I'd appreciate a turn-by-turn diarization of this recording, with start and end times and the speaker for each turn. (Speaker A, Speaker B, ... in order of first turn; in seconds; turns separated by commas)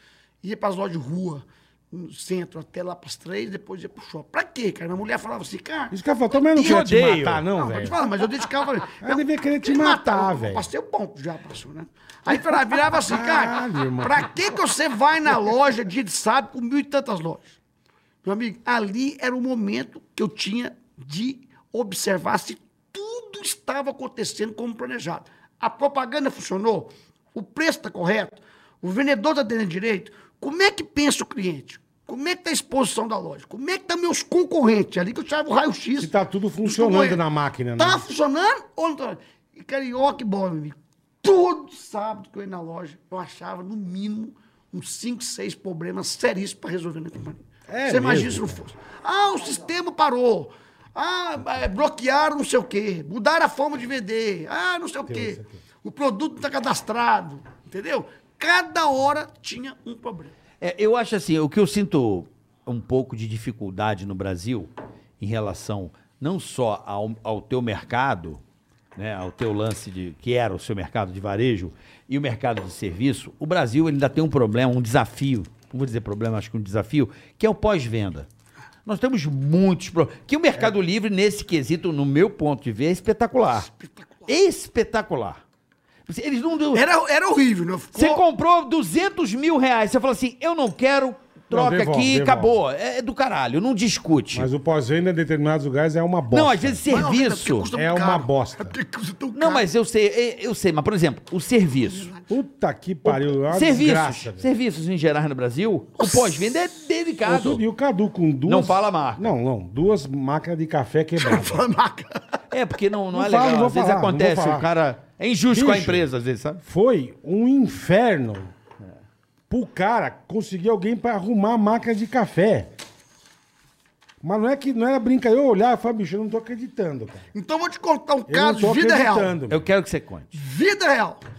Speaker A: 0.4-6.9, Speaker B: 5.9-8.0, Speaker C: 6.6-7.5, Speaker A: 7.5-17.6, Speaker B: 9.0-10.7, Speaker B: 13.1-14.3, Speaker A: 18.2-36.1, Speaker B: 36.0-38.0, Speaker A: 36.6-37.2, Speaker A: 37.8-60.3, Speaker B: 47.7-48.6, Speaker B: 55.1-55.6, Speaker C: 60.6-68.4, Speaker C: 69.0-78.3, Speaker C: 78.8-83.7, Speaker A: 83.6-84.3, Speaker C: 84.3-85.4, Speaker C: 86.1-86.8, Speaker A: 86.7-88.2, Speaker C: 88.0-94.5, Speaker B: 91.5-92.6, Speaker B: 94.3-96.8, Speaker C: 96.3-97.7, Speaker A: 96.9-99.7, Speaker B: 97.7-98.8, Speaker C: 99.3-102.1, Speaker A: 101.8-102.2, Speaker B: 102.3-104.5, Speaker C: 103.0-107.6, Speaker A: 106.0-106.6, Speaker B: 107.3-111.6, Speaker C: 108.5-109.3, Speaker A: 111.2-112.4, Speaker C: 112.5-116.6, Speaker B: 113.1-114.7, Speaker B: 115.5-116.1, Speaker B: 116.6-118.5, Speaker B: 119.5-122.7, Speaker B: 124.2-127.3, Speaker A: 127.3-129.4, Speaker B: 128.3-129.6, Speaker C: 129.5-130.3, Speaker A: 130.3-131.2